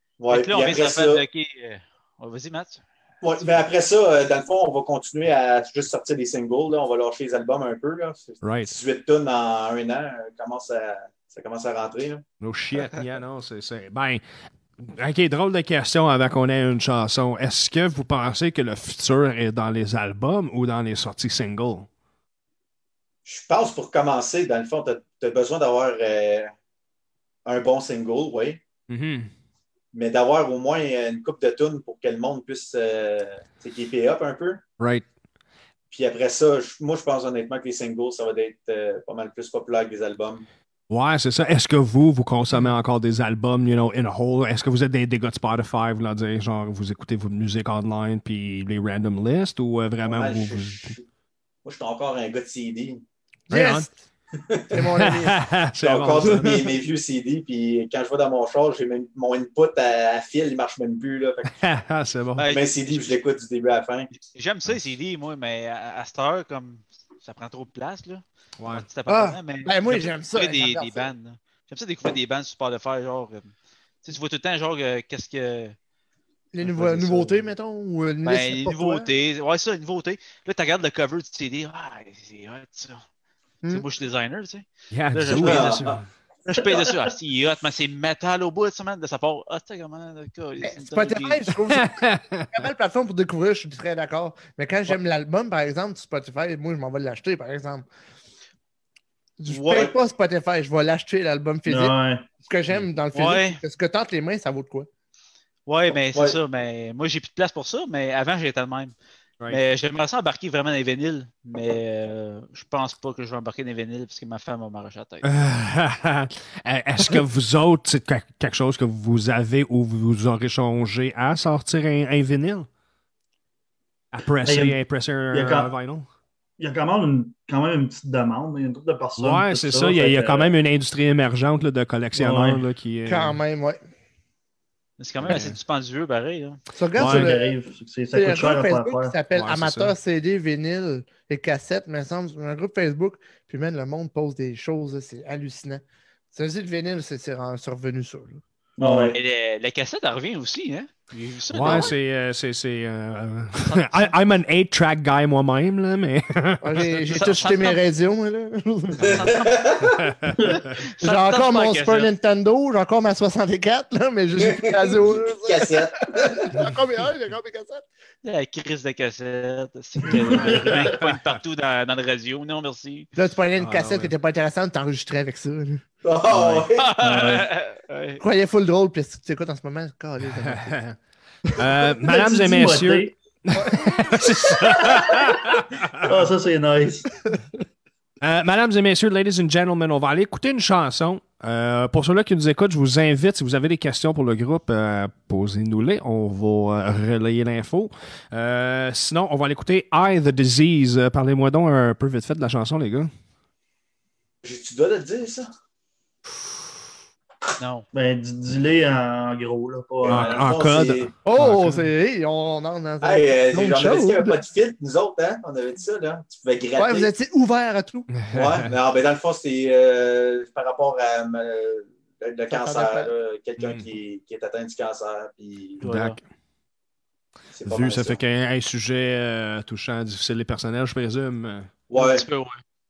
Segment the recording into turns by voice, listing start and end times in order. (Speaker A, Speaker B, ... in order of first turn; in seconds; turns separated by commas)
Speaker A: 0.2-1.2, Speaker B: 0.3-2.8, Speaker A: 3.2-12.2, Speaker C: 8.4-8.7, Speaker C: 12.4-14.2, Speaker C: 14.8-21.9, Speaker A: 23.2-26.5, Speaker A: 27.4-28.6, Speaker C: 28.9-29.3, Speaker A: 29.9-34.6, Speaker C: 34.8-35.0, Speaker A: 35.9-40.5, Speaker C: 40.9-50.9, Speaker A: 50.0-51.0, Speaker A: 51.6-53.0, Speaker C: 53.5-53.9, Speaker D: 53.5-54.0, Speaker A: 54.5-54.8, Speaker D: 54.7-55.4, Speaker C: 54.7-56.6, Speaker A: 55.8-61.6, Speaker D: 56.3-56.7, Speaker C: 61.5-62.5, Speaker B: 62.4-63.1, Speaker A: 62.5-64.1, Speaker B: 64.2-75.8, Speaker C: 68.6-68.8, Speaker D: 69.1-71.1, Speaker D: 76.5-79.1, Speaker B: 76.6-77.4, Speaker B: 78.2-83.0, Speaker B: 83.7-85.8, Speaker C: 84.9-86.0, Speaker A: 85.3-86.0, Speaker B: 86.5-91.5, Speaker E: 86.5-87.0, Speaker D: 90.6-97.8, Speaker C: 91.7-92.5, Speaker D: 99.4-104.9, Speaker A: 99.5-99.9, Speaker E: 101.7-102.3, Speaker B: 103.1-103.6, Speaker B: 105.7-108.9, Speaker A: 106.1-106.4, Speaker B: 109.5-115.3, Speaker C: 115.2-122.7, Speaker C: 124.1-126.1, Speaker E: 124.4-124.8, Speaker E: 125.3-125.7, Speaker E: 126.6-130.6, Speaker C: 129.2-133.4, Speaker E: 132.1-132.6, Speaker D: 133.1-133.8, Speaker B: 135.0-136.6, Speaker C: 135.2-135.6, Speaker D: 136.7-137.6, Speaker E: 136.9-139.1, Speaker C: 137.0-137.3, Speaker D: 138.1-148.4, Speaker C: 139.3-139.9, Speaker E: 148.8-149.2, Speaker B: 148.8-151.9, Speaker C: 151.5-156.8, Speaker B: 153.6-154.1, Speaker D: 156.6-159.3, Speaker B: 156.8-157.8, Speaker B: 159.0-159.8, Speaker A: 159.0-160.0, Speaker C: 159.8-160.8, Speaker E: 160.4-160.6, Speaker B: 160.7-162.1, Speaker D: 161.0-167.8, Speaker A: 164.4-166.5, Speaker B: 168.2-173.1, Speaker E: 170.1-170.9, Speaker C: 170.3-171.4, Speaker D: 173.2-175.8, Speaker C: 173.6-174.1, Speaker A: 176.0-176.9, Speaker C: 176.3-176.6, Speaker B: 176.7-178.2, Speaker E: 177.0-177.5, Speaker D: 178.2-180.8, Speaker C: 180.4-181.0, Speaker C: 181.6-186.1, Speaker E: 182.0-183.1, Speaker D: 183.5-184.6, Speaker E: 186.0-187.1, Speaker C: 188.2-203.1, Speaker A: 204.4-205.5, Speaker B: 207.6-207.8, Speaker E: 207.9-210.4, Speaker A: 210.0-211.1, Speaker C: 210.1-211.8, Speaker D: 211.2-214.4, Speaker A: 213.0-217.1, Speaker D: 216.8-218.1, Speaker C: 218.2-218.7, Speaker A: 218.3-225.9, Speaker D: 222.5-223.1, Speaker C: 223.6-223.8, Speaker B: 225.8-226.2, Speaker C: 225.8-226.2, Speaker A: 227.5-228.2, Speaker C: 227.7-231.7, Speaker A: 231.9-232.2, Speaker B: 231.9-232.6